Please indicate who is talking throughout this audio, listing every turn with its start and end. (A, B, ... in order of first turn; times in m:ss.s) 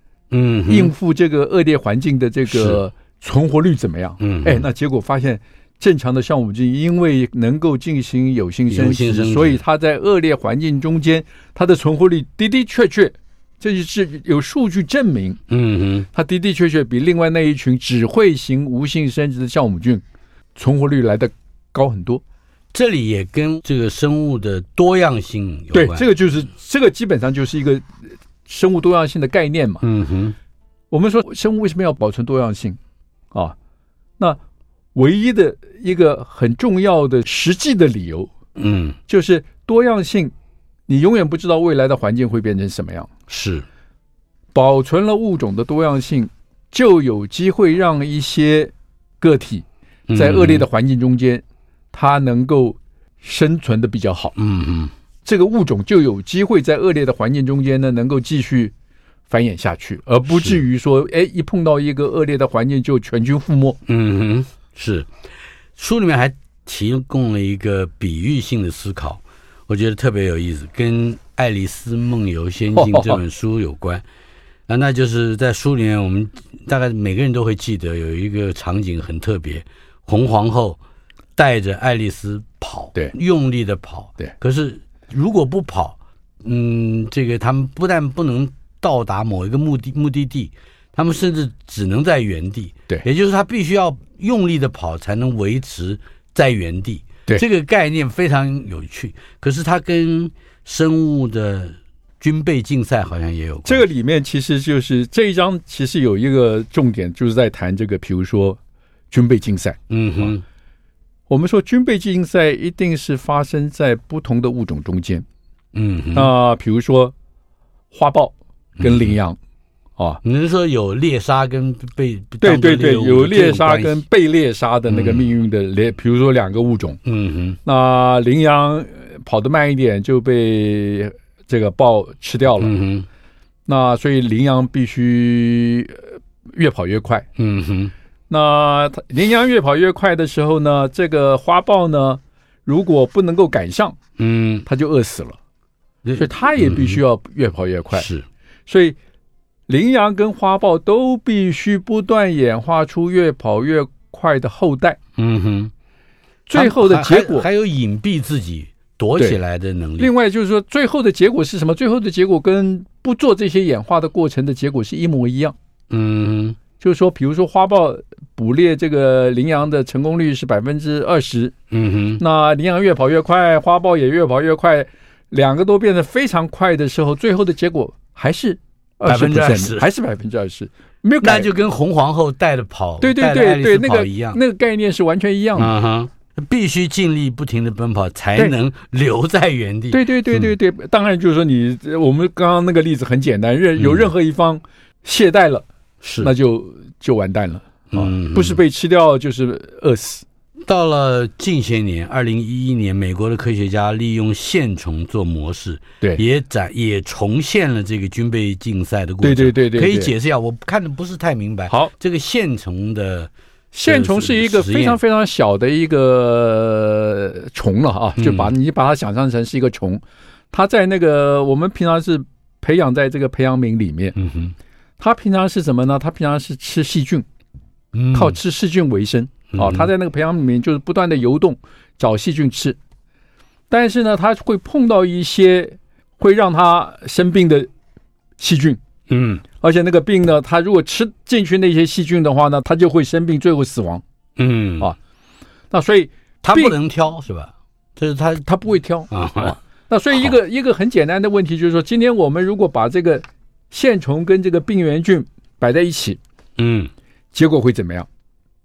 0:00.3-0:00.9 A
0:00.7-0:15.4 B
0:02.5-0:02.8 A
0:04.2-0:04.7 A
0:08.7-0:09.6 A
0:15.5-0:16.1 A
0:16.1-0:20.0 B
0:20.5-0:22.2 B
0:22.7-0:26.1 A
0:25.7-0:27.8 B
0:28.4-0:29.8 B
0:29.8-0:30.4 A
0:30.9-0:32.8 B
0:34.9-0:38.3 B
0:38.6-0:39.0 A
0:39.1-0:40.3 B
0:40.9-0:43.1 B
0:43.3-0:43.6 A
0:44.5-0:54.3 B
0:50.1-0:50.6 A
0:54.4-0:54.9 A
0:55.2-0:58.7 B
0:59.3-1:03.8 B
1:00.3-1:00.6 A
1:03.8-1:05.1 A
1:05.8-1:14.0 A
1:12.7-1:13.2 B
1:14.7-1:20.8 A
1:21.4-1:43.8 A
1:43.6-1:48.6 B
1:49.1-1:50.3 B
1:49.9-1:50.4 A
1:51.3-1:55.2 B
1:55.7-1:56.3 A
1:56.1-1:57.1 B
1:57.9-1:59.4 B
1:58.8-1:59.2 A
2:00.2-2:04.0 A
2:02.4-2:07.0 B
2:04.9-2:05.3 A
2:07.0-2:07.6 A
2:07.6-2:12.7 B
2:12.6-2:13.1 A
2:13.7-2:17.3 B
2:17.4-2:17.9 A
2:18.3-2:24.0 B
2:24.2-2:24.6 A
2:24.6-2:25.4 B
2:26.0-2:27.0 A
2:26.2-2:28.1 B
2:27.9-2:28.3 A
2:28.7-2:29.0 B
2:29.7-2:35.0 B
2:35.2-2:35.7 A
2:36.5-2:37.5 B
2:36.5-2:40.1 A
2:40.0-2:45.5 B
2:45.9-2:46.6 A
2:46.8-2:51.5 B
2:51.7-2:52.2 A
2:52.2-3:01.5 B
2:59.0-2:59.9 A
3:01.2-3:04.4 A
3:03.0-3:05.7 B
3:05.6-3:10.5 A
3:09.9-3:15.6 B
3:13.8-3:14.1 A
3:16.0-3:16.3 A
3:16.2-3:20.2 B
3:17.9-3:18.6 A
3:20.6-3:33.3 A
3:29.2-3:30.1 B
3:33.7-3:40.0 B
3:33.8-3:35.0 A
3:38.2-3:38.5 A
3:40.5-3:44.1 B
3:44.2-3:44.5 A
3:45.0-3:47.2 B
3:47.9-3:48.4 A
3:48.1-3:52.8 B
3:49.5-3:49.9 A
3:53.7-3:57.7 B
3:58.4-3:58.8 B
3:59.1-3:59.4 A
3:59.6-4:04.0 B
4:04.4-4:04.9 A
4:05.7-4:06.7 B
4:06.4-4:08.5 A
4:08.4-4:16.2 B
4:09.1-4:09.6 A
4:16.6-4:16.9 A
4:17.3-4:18.1 B